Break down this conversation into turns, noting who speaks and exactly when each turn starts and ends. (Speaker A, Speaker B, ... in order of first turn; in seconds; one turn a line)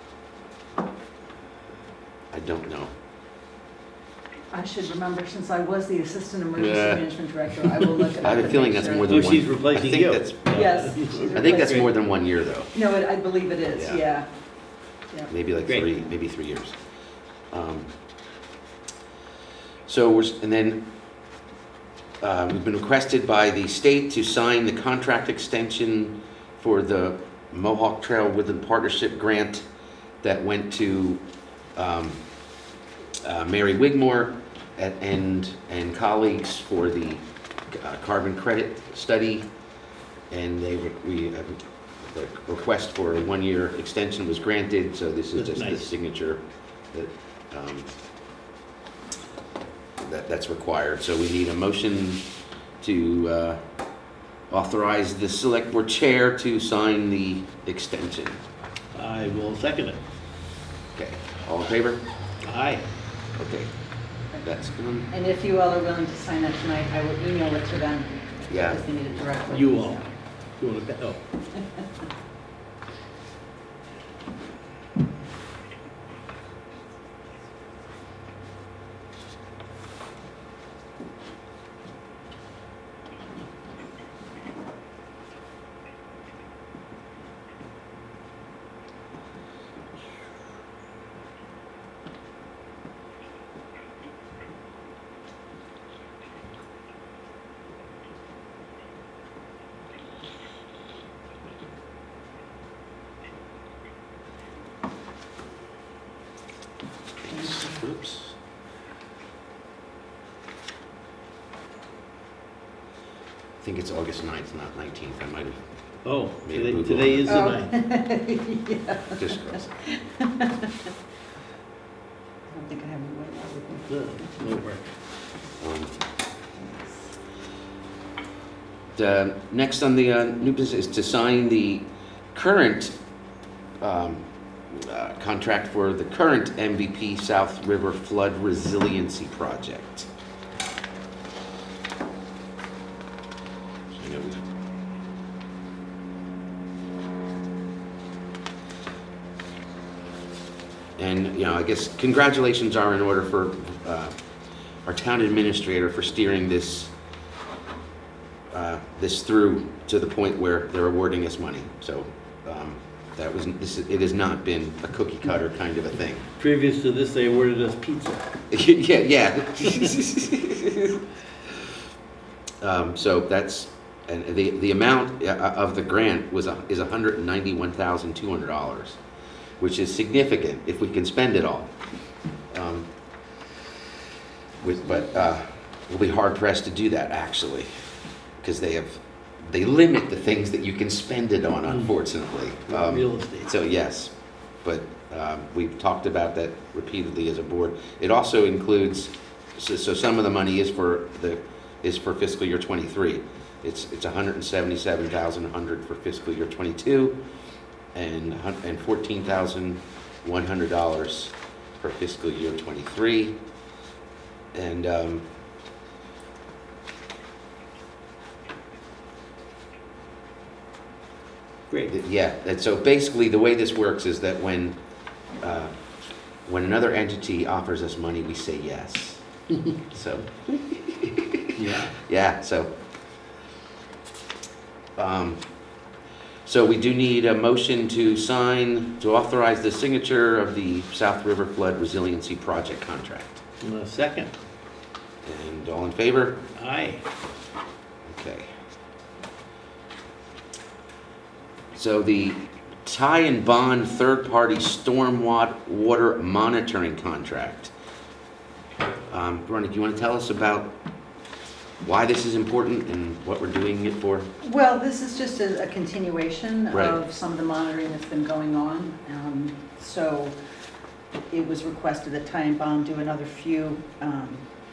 Speaker A: 2.3-2.9
Speaker B: 4.5-9.3
Speaker A: 6.6-7.0
Speaker A: 8.2-10.7
Speaker C: 9.1-11.9
Speaker B: 10.5-11.9
Speaker A: 11.3-12.7
Speaker B: 12.7-14.3
Speaker A: 13.7-14.0
Speaker A: 15.3-16.8
Speaker A: 17.5-17.9
Speaker A: 19.9-20.8
Speaker A: 22.2-29.6
Speaker A: 30.2-31.2
Speaker A: 31.8-32.2
Speaker A: 33.2-39.5
Speaker A: 40.3-47.9
Speaker C: 45.3-45.9
Speaker A: 50.0-52.2
Speaker A: 52.8-53.6
Speaker A: 54.5-58.4
Speaker C: 58.9-60.0
Speaker A: 60.9-62.0
Speaker C: 62.4-62.8
Speaker A: 63.4-63.7
Speaker A: 64.4-65.1
Speaker B: 65.1-70.1
Speaker A: 68.5-68.8
Speaker C: 69.5-70.0
Speaker C: 70.6-71.2
Speaker A: 107.2-108.3
Speaker B: 107.3-107.8
Speaker A: 113.6-115.6
Speaker C: 116.0-117.7
Speaker A: 116.4-117.4
Speaker B: 117.3-120.9
Speaker A: 119.2-119.8
Speaker B: 122.5-124.5
Speaker C: 123.9-124.8
Speaker A: 125.6-126.0
Speaker B: 126.5-127.1
Speaker A: 128.9-132.9
Speaker A: 133.8-140.1
Speaker A: 143.9-144.4
Speaker A: 151.0-154.2
Speaker A: 154.8-156.9
Speaker A: 158.5-166.2
Speaker C: 166.4-168.2
Speaker A: 168.5-171.7
Speaker A: 172.6-179.0
Speaker A: 179.6-181.7
Speaker A: 182.5-182.9
Speaker A: 184.6-187.8
Speaker A: 188.4-207.2
Speaker C: 192.7-193.5
Speaker A: 207.9-213.4
Speaker A: 214.5-215.3
Speaker A: 221.9-224.8
Speaker A: 225.4-225.7
Speaker A: 226.4-229.2
Speaker A: 229.8-232.7
Speaker C: 231.6-232.0
Speaker A: 235.0-235.4
Speaker A: 236.4-243.4
Speaker C: 243.6-244.3
Speaker A: 245.2-246.4
Speaker C: 246.6-247.0
Speaker A: 248.0-248.5
Speaker A: 251.7-257.7
Speaker A: 259.1-260.7
Speaker A: 261.8-264.3
Speaker B: 264.4-270.3
Speaker A: 266.7-267.0
Speaker B: 271.3-274.5